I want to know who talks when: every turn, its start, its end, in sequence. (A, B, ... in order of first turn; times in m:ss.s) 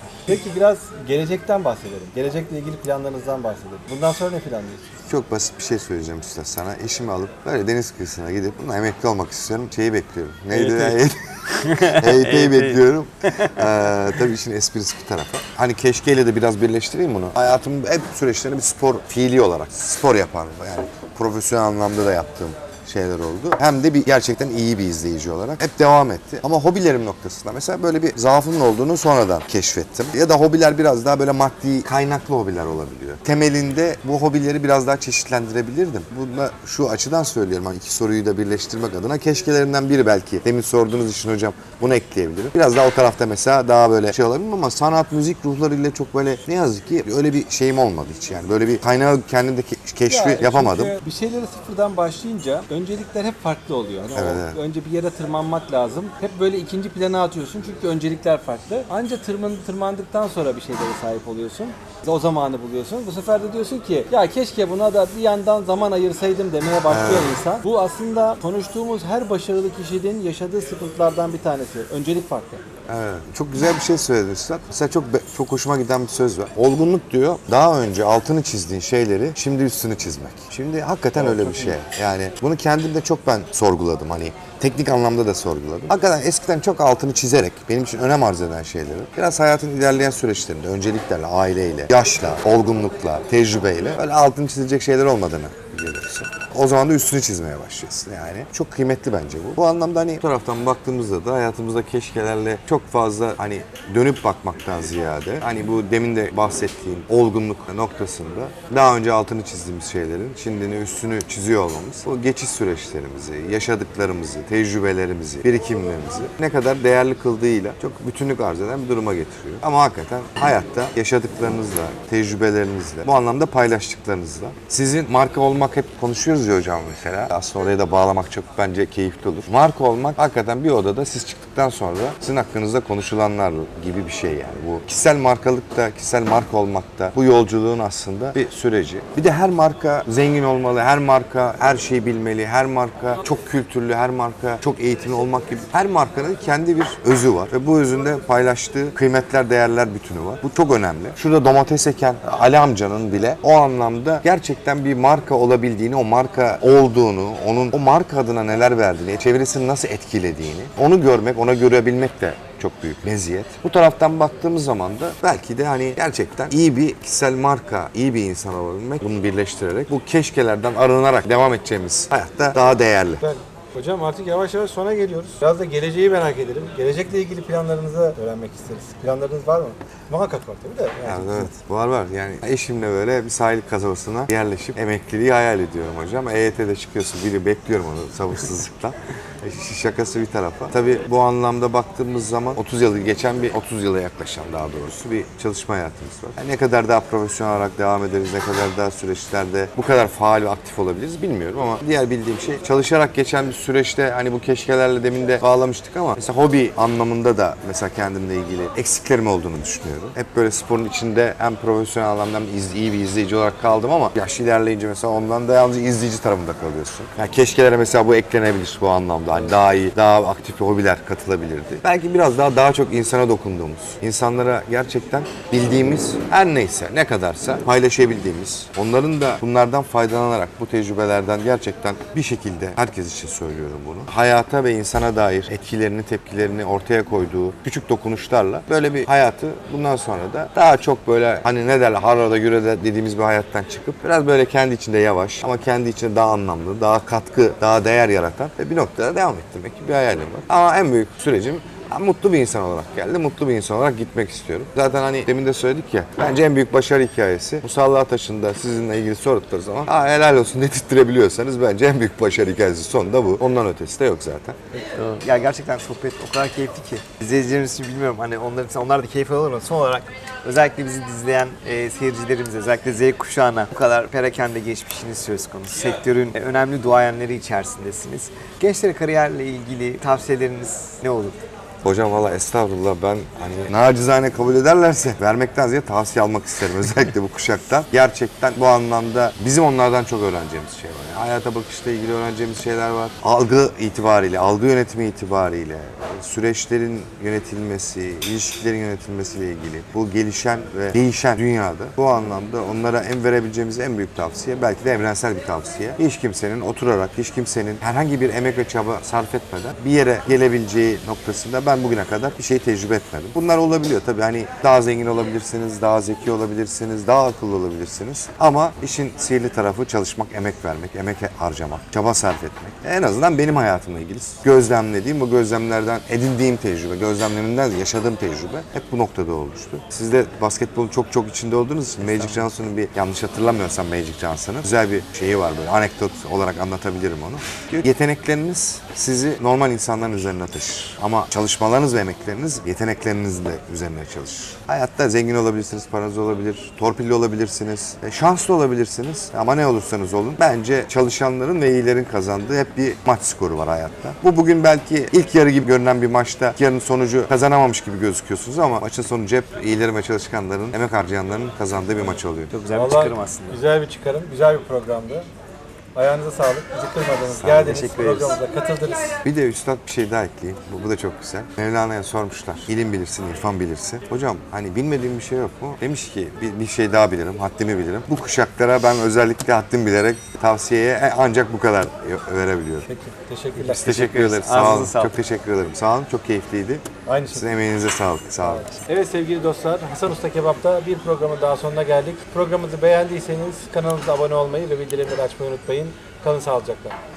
0:00.3-0:04.9 A
0:05.0-0:11.4 B
0:10.5-0:13.7 C
0:12.0-0:51.0 B
0:50.1-1:12.6 A
0:54.1-0:54.6 B
1:06.9-1:07.4 B
1:12.9-2:53.2 B
1:21.2-1:21.8 A
2:53.2-3:01.5 A
3:01.0-4:24.6 B
4:24.7-4:41.4 C
4:41.8-6:02.5 B
5:32.0-5:32.5 C
6:02.5-6:03.6 C
6:02.7-6:05.3 A
6:06.0-6:09.2 A
6:07.2-6:08.4 B
6:09.2-6:22.9 B
6:22.9-6:24.0 A
6:23.6-6:28.7 B
6:23.8-6:25.2 C
6:27.1-6:27.5 A
6:28.4-6:37.0 A